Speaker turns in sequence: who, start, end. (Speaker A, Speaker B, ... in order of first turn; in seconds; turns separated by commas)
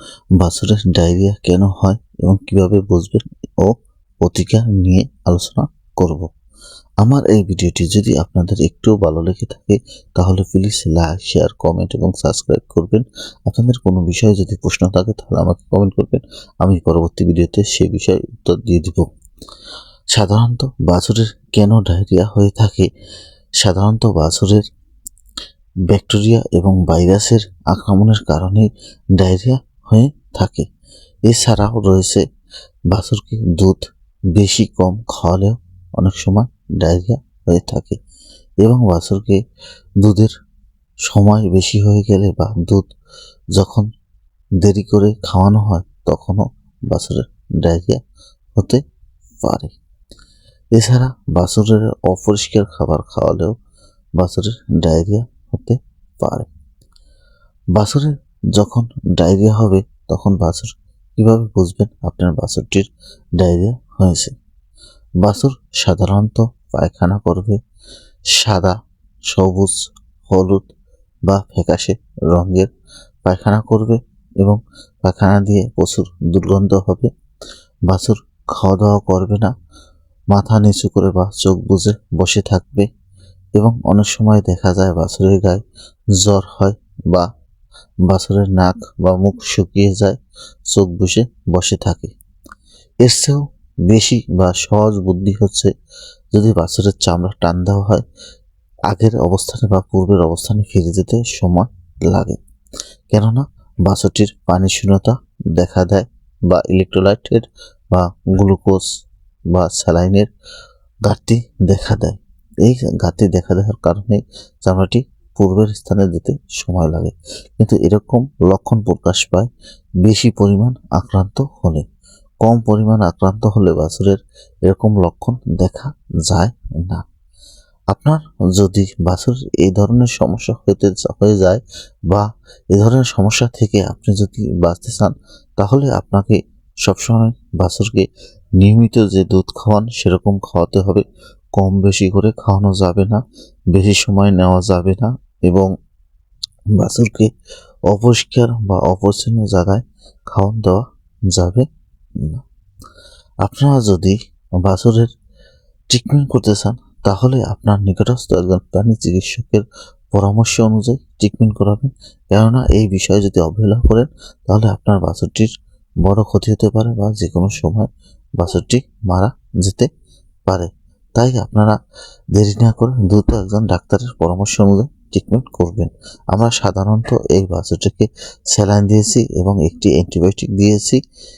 Speaker A: 0.4-3.7, Speaker A: 4.2-6.3, Speaker A: 7.0-19.1, Speaker A: 20.1-22.9, Speaker A: 23.6-24.6, Speaker A: 25.9-30.7, Speaker A: 31.3-32.2, Speaker A: 32.9-33.8, Speaker A: 34.4-38.0, Speaker A: 38.6-39.4, Speaker A: 40.0-40.3, Speaker A: 41.1-42.9, Speaker A: 43.6-43.9, Speaker A: 44.6-48.0, Speaker A: 48.6-48.8, Speaker A: 49.4-49.7, Speaker A: 50.8-53.5, Speaker A: 54.2-56.5, Speaker A: 57.8-62.9, Speaker A: 63.4-64.3, Speaker A: 65.2-67.6, Speaker A: 68.4-68.7, Speaker A: 69.3-69.8, Speaker A: 70.3-70.7, Speaker A: 71.3-72.7, Speaker A: 73.2-77.1, Speaker A: 77.9-79.5, Speaker A: 80.3-82.9, Speaker A: 83.6-85.6, Speaker A: 86.2-87.3, Speaker A: 88.1-90.2, Speaker A: 90.7-92.1, Speaker A: 93.0-95.7, Speaker A: 96.3-98.0, Speaker A: 98.9-102.4, Speaker A: 103.1-108.8, Speaker A: 109.5-110.3, Speaker A: 111.1-119.5, Speaker A: 120.0-121.8, Speaker A: 122.4-127.0, Speaker A: 127.9-138.1, Speaker A: 138.6-141.1, Speaker A: 141.6-143.2, Speaker A: 143.7-145.7, Speaker A: 146.8-147.3, Speaker A: 147.9-150.8, Speaker A: 151.3-151.7, Speaker A: 153.4-155.1, Speaker A: 155.9-165.5, Speaker A: 166.0-169.9, Speaker A: 170.5-171.8, Speaker A: 172.3-181.0